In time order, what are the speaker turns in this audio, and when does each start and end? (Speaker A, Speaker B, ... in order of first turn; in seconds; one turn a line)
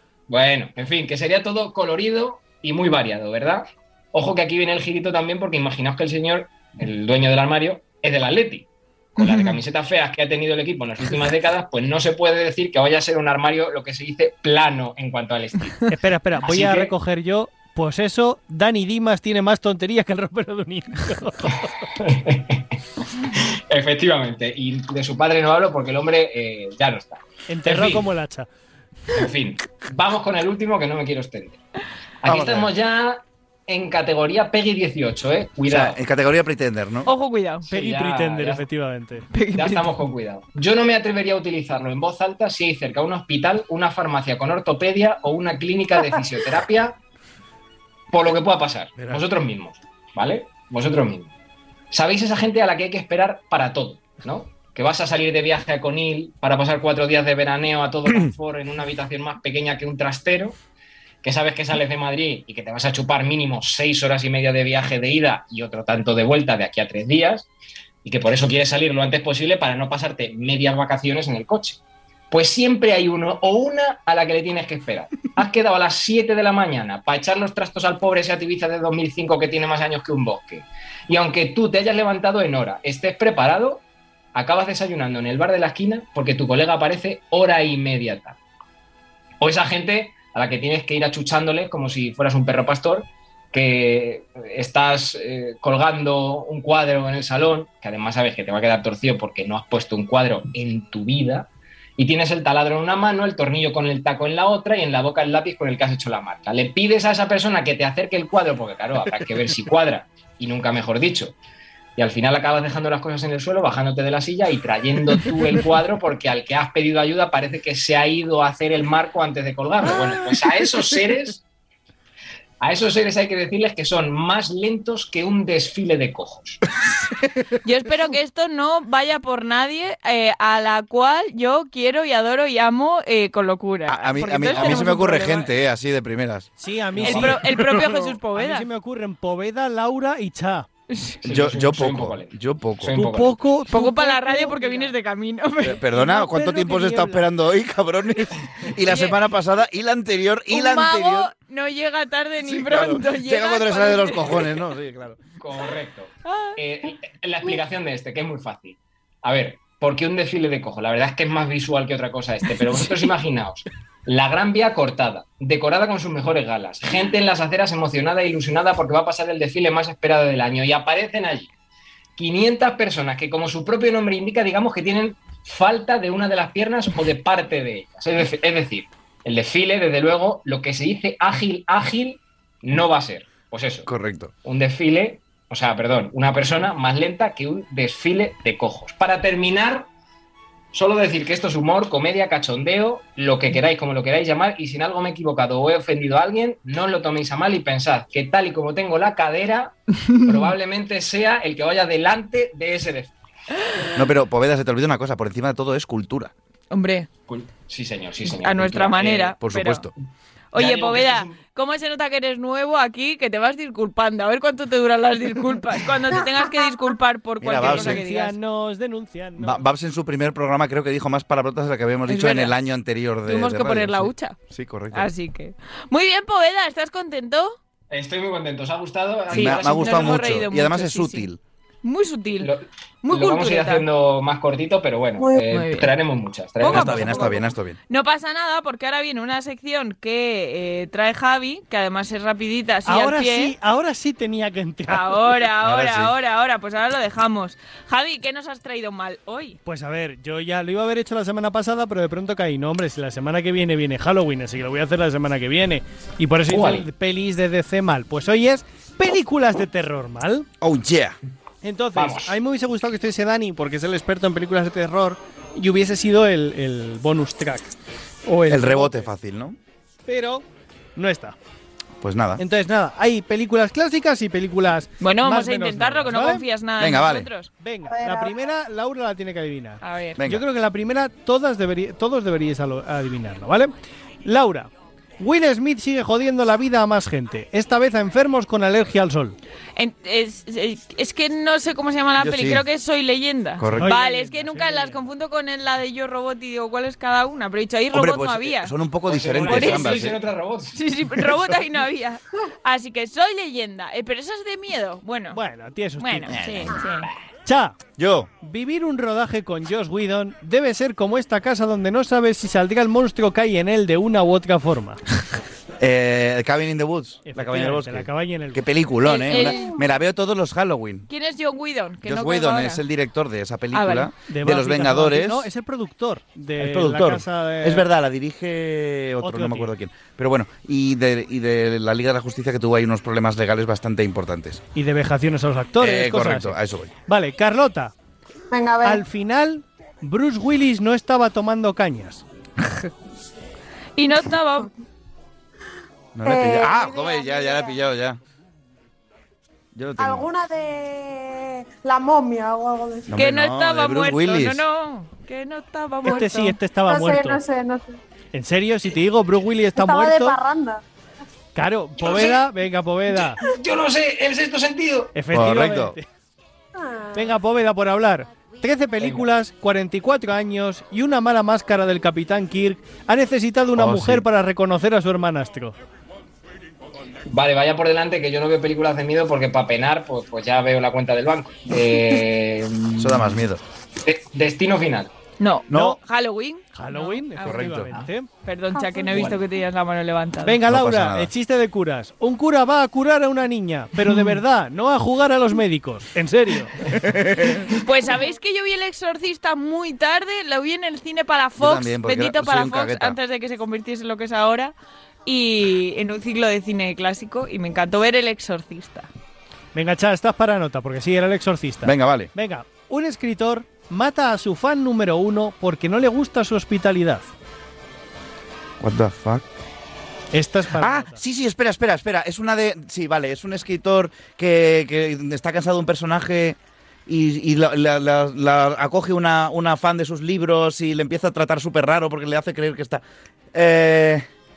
Speaker A: 0.3-15.8
Speaker B: 9.2-9.6
Speaker C: 15.9-21.8
Speaker A: 16.4-16.9
Speaker A: 21.5-28.1
Speaker C: 27.5-28.5
Speaker A: 29.1-31.6
Speaker A: 32.2-36.0
Speaker D: 32.2-32.7
Speaker D: 35.7-37.1
Speaker B: 37.0-37.6
Speaker C: 37.7-39.3
Speaker A: 37.7-38.6
Speaker B: 39.3-39.9
Speaker A: 39.5-47.0
Speaker A: 48.1-51.3
Speaker D: 49.0-49.2
Speaker A: 51.9-60.5
Speaker A: 61.2-67.5
Speaker A: 68.0-71.8
Speaker A: 72.3-83.8
Speaker A: 84.3-88.4
Speaker A: 89.4-111.3
Speaker A: 112.0-121.4
Speaker A: 122.6-126.6
Speaker B: 127.6-135.5
Speaker D: 133.9-137.9
Speaker C: 136.6-140.7
Speaker B: 137.0-138.7
Speaker B: 140.9-141.2
Speaker A: 141.2-143.4
Speaker D: 141.2-143.0
Speaker C: 142.9-144.9
Speaker B: 143.7-145.9
Speaker D: 145.6-151.3
Speaker C: 145.9-147.2
Speaker B: 148.8-149.2
Speaker B: 150.5-154.6
Speaker D: 152.4-155.2
Speaker A: 155.4-171.5
Speaker B: 156.2-156.6
Speaker A: 172.2-183.9
Speaker D: 183.9-184.3
Speaker A: 184.4-189.9
Speaker A: 190.7-203.1
Speaker B: 200.1-200.5
Speaker D: 203.9-206.3
Speaker B: 206.7-207.1
Speaker A: 207.3-209.3
Speaker B: 208.4-209.9
Speaker D: 209.4-209.9
Speaker B: 210.5-218.4
Speaker A: 210.5-211.4
Speaker D: 217.4-218.0
Speaker C: 217.6-219.6
Speaker D: 219.4-225.1
Speaker B: 222.1-222.6
Speaker B: 223.2-224.4
Speaker B: 224.9-227.6
Speaker A: 227.9-230.2
Speaker D: 229.3-231.4
Speaker B: 229.3-231.3
Speaker B: 231.8-232.5
Speaker A: 232.4-237.2
Speaker B: 233.0-233.8
Speaker B: 235.4-235.9
Speaker B: 236.6-243.5
Speaker D: 236.6-237.8
Speaker C: 242.9-245.3
Speaker B: 244.9-249.6
Speaker D: 245.6-246.1
Speaker C: 249.7-260.5
Speaker A: 256.5-256.9
Speaker D: 260.6-261.2
Speaker C: 261.6-267.7
Speaker A: 261.9-262.4
Speaker C: 268.2-269.1
Speaker D: 268.5-269.6
Speaker C: 270.1-270.4
Speaker C: 270.9-271.4
Speaker D: 272.0-272.4
Speaker C: 272.4-276.4
Speaker B: 275.0-277.5
Speaker D: 276.8-277.3
Speaker C: 277.6-283.7
Speaker E: 277.9-278.4
Speaker B: 279.8-280.2
Speaker D: 280.2-280.4
Speaker C: 284.2-289.4
Speaker B: 289.8-298.7
Speaker D: 292.2-292.6
Speaker D: 293.6-293.9
Speaker C: 293.7-295.0
Speaker D: 297.9-300.2
Speaker A: 299.1-300.8
Speaker B: 299.4-300.1
Speaker B: 300.7-305.4
Speaker C: 305.3-306.4
Speaker B: 306.0-307.1
Speaker D: 306.3-306.8
Speaker C: 307.4-307.8
Speaker D: 308.0-308.3
Speaker C: 308.4-315.0
Speaker D: 315.8-321.1
Speaker C: 317.2-318.7
Speaker B: 319.0-319.8
Speaker E: 319.3-319.8
Speaker B: 321.1-322.8
Speaker D: 322.0-325.5
Speaker B: 323.7-324.1
Speaker C: 324.2-327.9
Speaker D: 326.6-334.6
Speaker C: 329.2-329.7
Speaker C: 334.7-337.9
Speaker D: 335.8-336.9
Speaker E: 338.5-339.1
Speaker C: 338.8-342.2
Speaker B: 342.6-342.9
Speaker B: 344.0-344.7
Speaker D: 346.1-348.2
Speaker E: 346.2-347.8
Speaker D: 349.7-350.3
Speaker E: 350.0-353.2
Speaker D: 353.1-354.6
Speaker B: 353.1-356.6
Speaker C: 356.0-357.4
Speaker E: 356.9-358.0
Speaker C: 358.3-360.4
Speaker E: 359.8-360.8
Speaker C: 361.6-363.4
Speaker A: 362.0-362.4
Speaker A: 363.4-365.1
Speaker C: 365.1-366.1
Speaker D: 365.3-366.0
Speaker E: 366.7-367.3
Speaker C: 367.1-375.8
Speaker A: 369.0-369.2
Speaker D: 373.8-374.2
Speaker A: 377.3-383.4
Speaker D: 383.0-383.6
Speaker A: 384.1-385.1
Speaker B: 385.4-387.7
Speaker D: 385.7-386.0
Speaker C: 385.7-386.0
Speaker C: 386.7-388.3
Speaker D: 387.4-388.1
Speaker B: 388.4-390.6
Speaker E: 388.7-389.4
Speaker C: 390.4-396.9
Speaker D: 390.7-391.3
Speaker D: 396.9-397.7
Speaker B: 397.6-404.7
Speaker D: 401.6-403.2
Speaker B: 405.2-409.1
Speaker C: 409.7-417.3
Speaker D: 411.8-412.3
Speaker D: 418.8-419.5
Speaker C: 420.3-421.2
Speaker D: 420.8-434.2